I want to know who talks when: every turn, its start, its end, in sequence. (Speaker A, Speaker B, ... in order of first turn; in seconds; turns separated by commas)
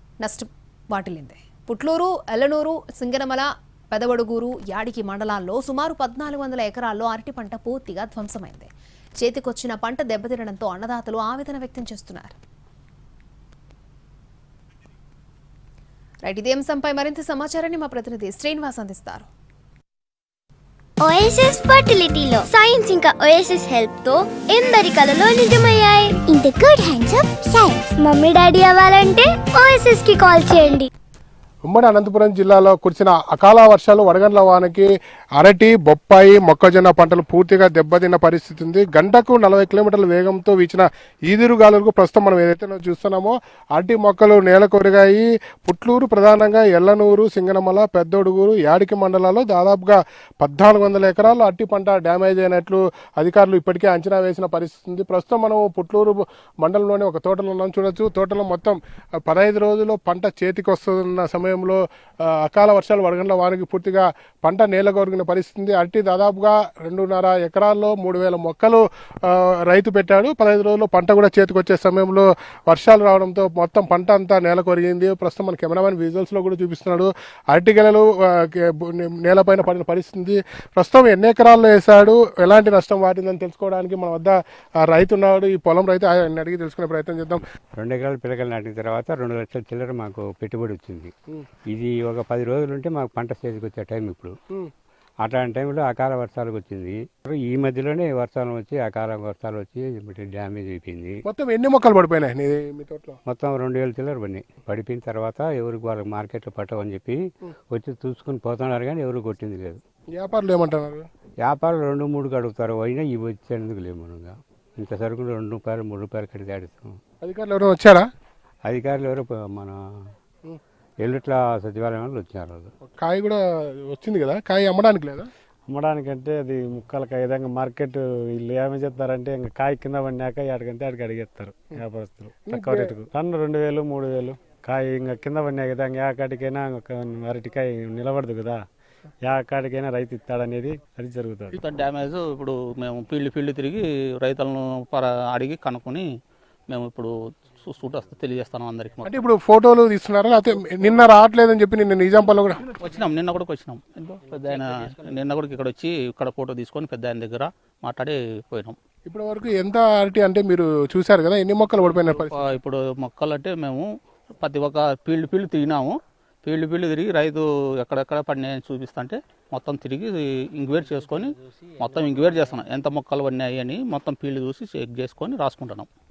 Speaker A: 0.2-8.7, Speaker A: 9.2-12.3, Speaker A: 16.2-19.3, Speaker B: 21.0-30.9, Speaker C: 31.7-84.4, Speaker C: 84.9-87.4, Speaker D: 87.8-91.1, Speaker D: 91.7-94.3, Speaker D: 95.2-101.2, Speaker C: 101.2-103.2, Speaker D: 103.3-107.2, Speaker D: 107.7-109.8, Speaker C: 110.1-111.1, Speaker D: 111.4-117.0, Speaker C: 117.2-118.0, Speaker D: 118.7-119.8, Speaker D: 121.0-122.7, Speaker C: 123.0-125.3, Speaker E: 125.7-138.6, Speaker C: 132.4-132.9, Speaker E: 139.2-141.5, Speaker F: 141.6-146.1, Speaker F: 146.7-149.1, Speaker C: 149.0-152.6, Speaker F: 152.8-158.8, Speaker C: 159.1-162.6, Speaker F: 161.9-163.9, Speaker F: 164.4-175.9